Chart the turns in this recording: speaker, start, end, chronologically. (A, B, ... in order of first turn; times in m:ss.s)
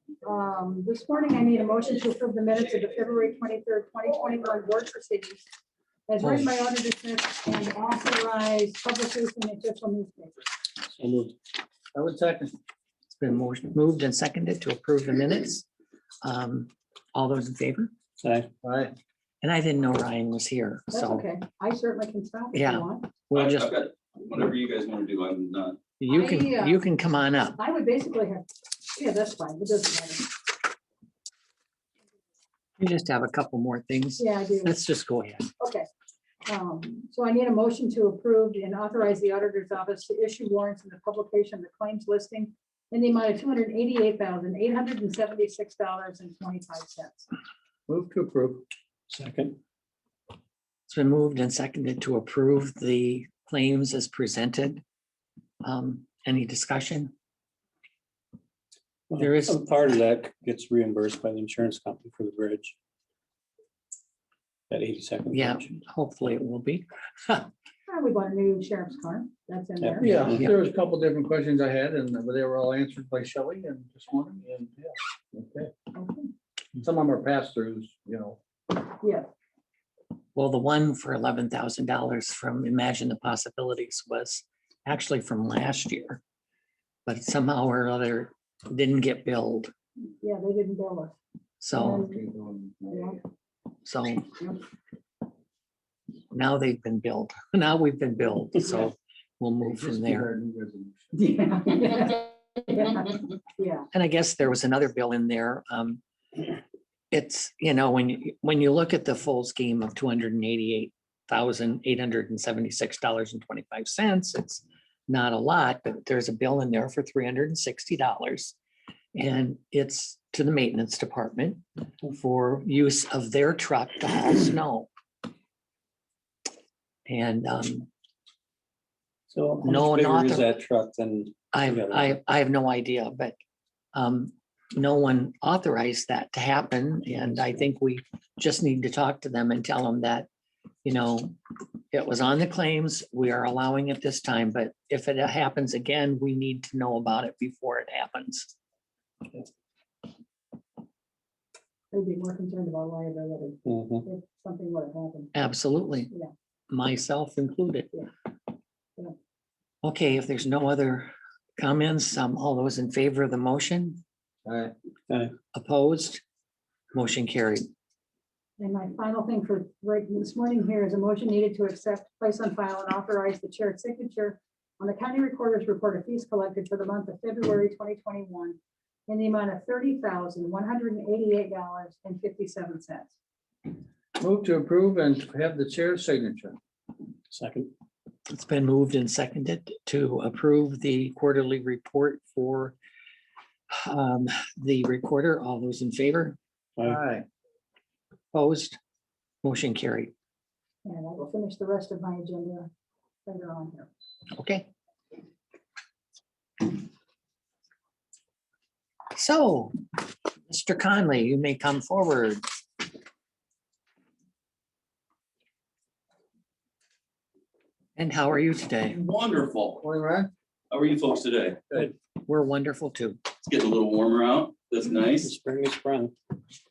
0:00.2-0:05.4 A
0:06.1-0:10.4 A
0:06.2-0:06.5 B
0:11.0-0:11.3 C
0:11.9-0:12.6 D
0:13.1-0:15.6 B
0:16.2-0:17.9 B
0:18.2-0:18.5 C
0:18.6-0:18.9 D
0:19.4-0:21.2 B
0:20.9-0:23.1 A
0:22.5-0:23.7 B
0:23.3-0:25.8 E
0:26.0-0:27.6 B
0:26.1-0:26.8 A
0:27.6-0:30.3 A
0:32.8-0:35.5 B
0:34.2-0:34.7 A
0:35.6-0:35.9 A
0:36.4-0:47.3 A
0:47.9-0:48.6 D
0:49.1-0:49.6 C
0:50.9-0:54.8 B
0:55.6-0:57.1 B
0:59.1-1:02.7 C
0:59.2-0:59.6 B
1:04.7-1:05.7 C
1:05.3-1:07.5 B
1:07.9-1:10.2 A
1:09.8-1:10.4 C
1:10.0-1:15.7 D
1:15.9-1:16.3 A
1:16.8-1:18.4 D
1:19.0-1:19.3 A
1:20.3-1:26.2 B
1:27.0-1:29.7 B
1:30.0-1:31.2 A
1:31.6-1:32.0 B
1:31.7-1:32.2 A
1:32.0-1:33.2 D
1:32.9-1:33.2 A
1:33.8-1:34.4 B
1:36.3-1:40.3 B
1:39.6-1:41.3 D
1:41.2-1:43.8 A
1:43.9-1:46.0 B
1:47.1-1:58.5 B
1:59.1-2:04.9 B
2:07.1-2:07.9 B
2:09.3-2:12.2 C
2:09.6-2:10.5 B
2:11.5-2:13.4 B
2:13.9-2:20.3 B
2:20.8-2:21.4 B
2:21.9-2:28.5 B
2:31.9-2:35.3 A
2:33.6-2:34.0 C
2:35.3-2:36.1 B
2:36.7-2:37.9 B
2:39.8-2:44.0 B
2:44.4-2:44.7 D
2:45.5-2:46.2 B
2:46.9-2:47.7 B
2:48.6-2:58.6 A
2:59.1-3:03.1 A
3:04.2-3:06.6 D
3:07.3-3:07.7 C
3:08.3-3:12.8 B
3:13.7-3:16.4 B
3:16.8-3:17.2 D
3:18.3-3:18.8 B
3:19.4-3:20.1 B
3:20.8-3:22.7 A
3:23.2-3:23.9 A
3:24.4-3:24.7 B
3:29.1-3:29.8 B
3:30.5-3:32.4 B
3:38.0-3:39.0 B
3:38.9-3:39.8 E
3:39.8-3:40.3 D
3:40.7-3:41.6 E
3:41.8-3:43.2 B
3:43.4-3:45.3 E
3:45.2-3:46.1 C